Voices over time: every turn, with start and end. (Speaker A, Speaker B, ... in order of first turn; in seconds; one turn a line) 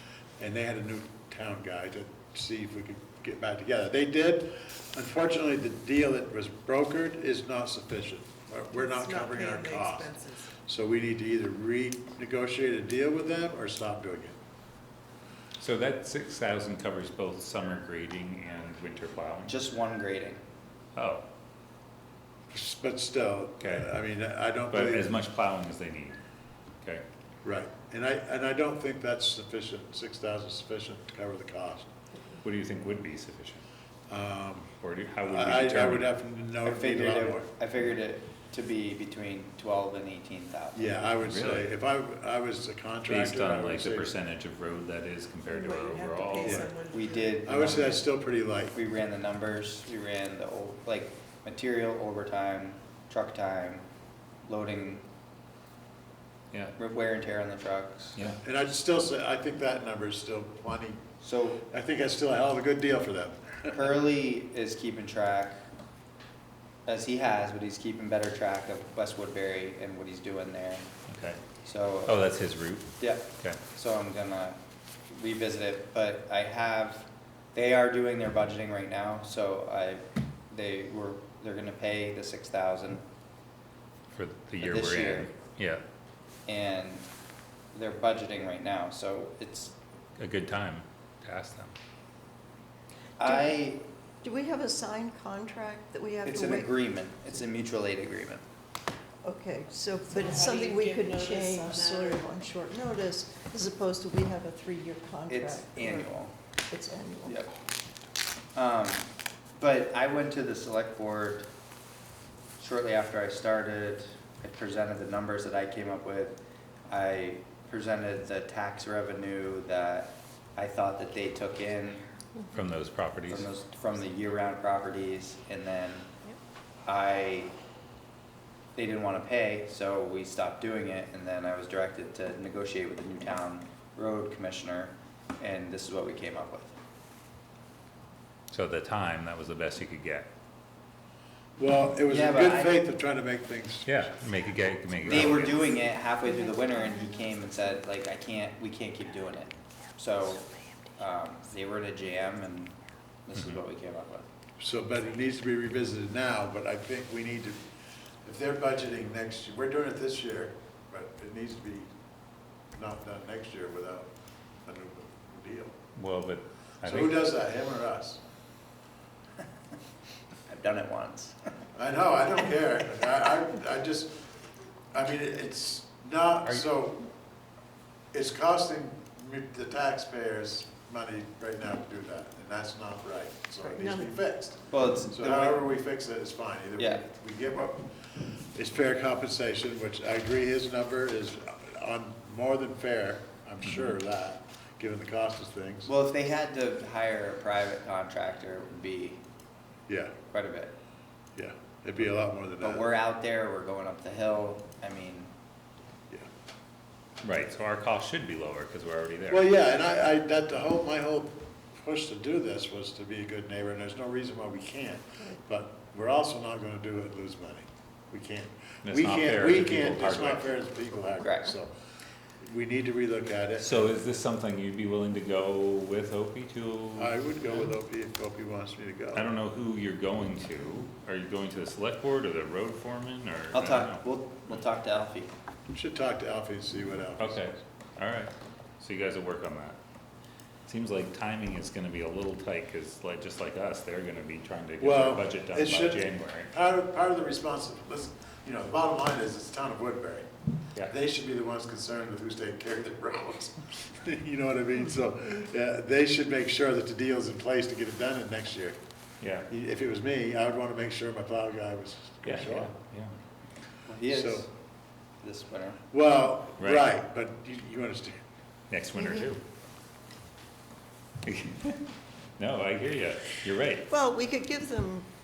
Speaker A: 0.4-14.4
Speaker B: 8.8-10.5
Speaker C: 15.6-19.5
Speaker D: 19.4-20.4
Speaker C: 20.9-21.2
Speaker A: 22.5-25.1
Speaker C: 23.6-23.9
Speaker C: 24.7-26.2
Speaker A: 27.4-31.9
Speaker C: 32.4-33.6
Speaker A: 34.1-37.5
Speaker C: 34.8-36.1
Speaker D: 36.6-41.1
Speaker A: 40.7-44.1
Speaker C: 41.2-41.7
Speaker C: 43.1-46.7
Speaker B: 45.5-47.4
Speaker A: 46.4-46.7
Speaker D: 46.9-48.0
Speaker A: 47.4-48.8
Speaker D: 48.7-53.8
Speaker D: 54.4-55.0
Speaker D: 56.8-58.2
Speaker A: 58.4-61.0
Speaker D: 61.2-61.6
Speaker A: 61.7-63.7
Speaker D: 63.7-65.6
Speaker D: 66.8-70.9
Speaker C: 71.1-71.4
Speaker D: 71.6-72.2
Speaker C: 72.0-73.6
Speaker D: 73.0-83.0
Speaker C: 84.1-85.8
Speaker D: 84.6-85.3
Speaker D: 86.5-87.0
Speaker D: 87.7-89.7
Speaker C: 90.2-91.7
Speaker D: 93.2-93.8
Speaker E: 93.2-93.6
Speaker E: 94.2-96.9
Speaker D: 96.2-98.4
Speaker E: 99.2-106.1
Speaker B: 100.3-102.2
Speaker D: 105.3-106.3
Speaker E: 106.7-107.4
Speaker D: 107.2-107.5
Speaker D: 108.5-111.5
Speaker D: 112.6-122.0
Speaker C: 122.5-123.4
Speaker D: 123.3-126.1
Speaker D: 126.8-127.5
Speaker D: 128.8-136.8
Speaker C: 138.5-140.3
Speaker A: 141.6-144.4
Speaker D: 142.1-142.8
Speaker C: 143.8-145.6
Speaker D: 145.0-150.4
Speaker A: 145.0-145.5
Speaker E: 146.4-147.0
Speaker D: 151.0-152.7
Speaker D: 153.2-154.2
Speaker A: 154.6-157.6
Speaker A: 158.2-161.9
Speaker A: 162.7-164.1
Speaker A: 164.6-165.7
Speaker C: 165.9-167.2
Speaker A: 166.8-168.2
Speaker D: 170.5-171.5
Speaker A: 171.7-174.2
Speaker A: 174.9-177.0
Speaker A: 178.1-187.9
Speaker E: 183.7-184.1
Speaker D: 184.7-185.6
Speaker A: 188.5-195.9
Speaker D: 195.9-199.2
Speaker A: 199.9-200.1
Speaker D: 200.3-200.7
Speaker A: 201.3-202.9
Speaker D: 202.6-205.3
Speaker C: 207.2-209.4
Speaker A: 209.3-221.7
Speaker C: 218.8-220.4
Speaker D: 221.2-221.5
Speaker A: 222.4-223.8
Speaker C: 223.6-227.7
Speaker A: 227.0-229.3
Speaker C: 229.1-234.5
Speaker D: 233.5-235.3
Speaker A: 235.7-237.6
Speaker C: 237.2-239.8
Speaker C: 240.7-246.5
Speaker A: 244.8-250.3
Speaker A: 250.8-258.8
Speaker C: 259.2-259.5
Speaker A: 259.5-262.7
Speaker C: 262.2-263.1
Speaker D: 263.9-264.4
Speaker A: 264.1-264.4
Speaker D: 265.2-265.8
Speaker A: 265.9-268.2
Speaker C: 266.6-266.9
Speaker C: 268.7-269.4
Speaker E: 268.9-269.3
Speaker C: 271.2-271.8
Speaker C: 272.4-273.8
Speaker E: 273.9-275.1